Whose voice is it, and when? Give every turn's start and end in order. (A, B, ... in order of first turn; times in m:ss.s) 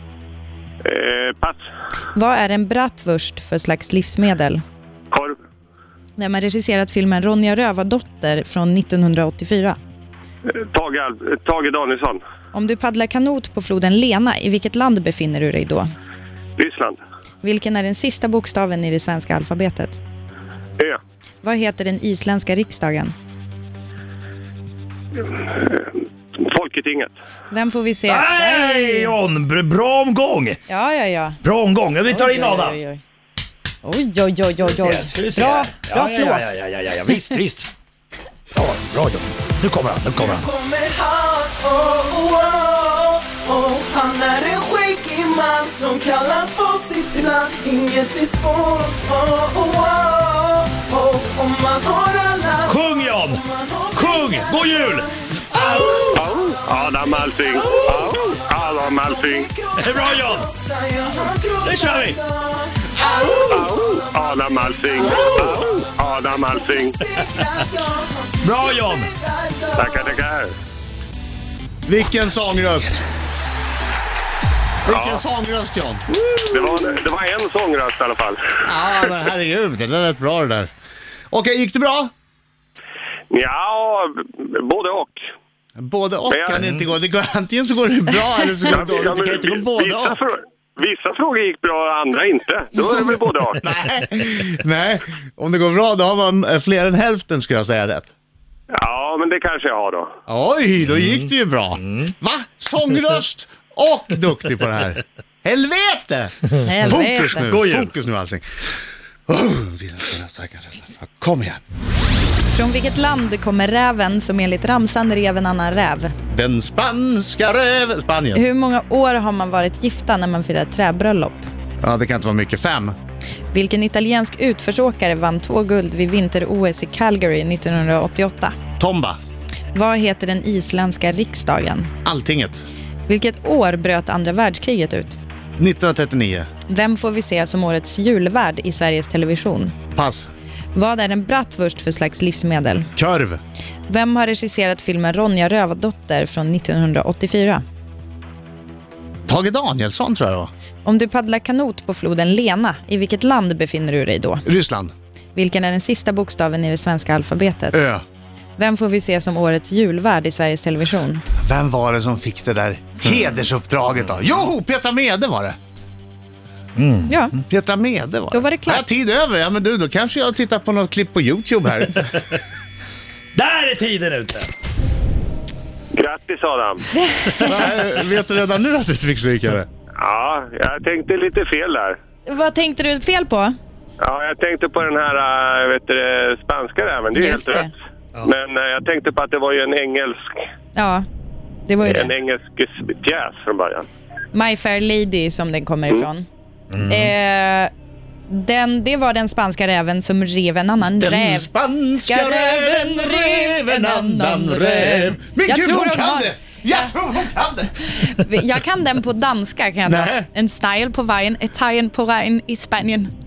0:00.8-0:01.6 A
0:02.1-0:04.6 B
0:05.1-0:05.4 A
0:06.2-0:09.8 B
0:10.7-0:12.2 A
0:12.5-0:15.9 B
0:16.6-0:17.0 A
0:17.4-0:20.0 B
0:21.4-0:23.1 B
0:25.3-0:25.9 A
0:26.4-0:27.1 A
0:27.5-0:29.1 B
0:28.1-0:30.6 C
0:30.7-0:31.4 B
0:31.4-0:32.8 C
0:32.1-0:33.0 B
0:33.8-0:36.6 B
0:34.7-0:37.7 C
0:38.5-0:40.5 C
0:40.1-0:56.1 D
0:52.6-0:55.1 C
0:55.7-0:56.0 E
0:56.1-0:59.5 A
0:57.5-1:10.2 D
0:59.8-1:00.5 C
1:01.6-1:02.2 C
1:03.5-1:07.0 A
1:08.4-1:09.1 C
1:09.8-1:10.5 A
1:11.9-1:13.0 E
1:14.8-1:16.0 E
1:14.9-1:15.2 A
1:16.5-1:18.6 A
1:18.6-1:20.7 E
1:21.3-1:22.1 E
1:23.3-1:25.2 A
1:25.8-1:30.2 E
1:26.3-1:26.6 A
1:28.7-1:33.6 A
1:33.6-1:38.1 E
1:38.7-1:40.1 A
1:40.3-1:48.4 E
1:41.8-1:42.1 C
1:46.6-1:47.4 B
1:47.4-1:47.9 C
1:49.3-1:51.6 E
1:52.5-1:56.1 B
1:56.3-1:58.4 E
1:58.3-2:01.5 B
2:01.8-2:02.9 E
2:03.5-2:08.5 B
2:08.8-2:09.2 E
2:09.7-2:11.9 B
2:12.0-2:12.6 E
2:13.1-2:15.2 B
2:15.6-2:16.5 E
2:16.7-2:19.7 B
2:19.9-2:20.3 E
2:20.7-2:22.9 B
2:23.0-2:23.4 E
2:23.9-2:27.6 B
2:29.3-2:30.5 E
2:30.8-2:34.4 B
2:34.4-2:34.9 E
2:35.3-2:37.8 B
2:37.7-2:38.0 E
2:38.6-2:41.2 B
2:41.4-2:45.6 E
2:46.8-2:47.2 C
2:47.1-2:47.3 B
2:47.5-2:52.1 E
2:48.3-2:48.9 B
2:53.3-2:54.5 C
2:55.9-2:56.9 A
2:57.0-2:57.5 B
2:57.4-2:59.7 E
3:00.0-3:02.0 A
3:02.3-3:03.5 B
3:04.0-3:10.3 A
3:07.1-3:07.7 B
3:10.7-3:11.0 B
3:11.7-3:12.1 B
3:11.8-3:13.8 A
3:14.3-3:16.2 B
3:16.7-3:17.1 C
3:16.9-3:17.7 B
3:18.3-3:21.5 B
3:20.8-3:27.7 E
3:22.0-3:26.9 B
3:27.8-3:33.1 B
3:29.8-3:30.3 E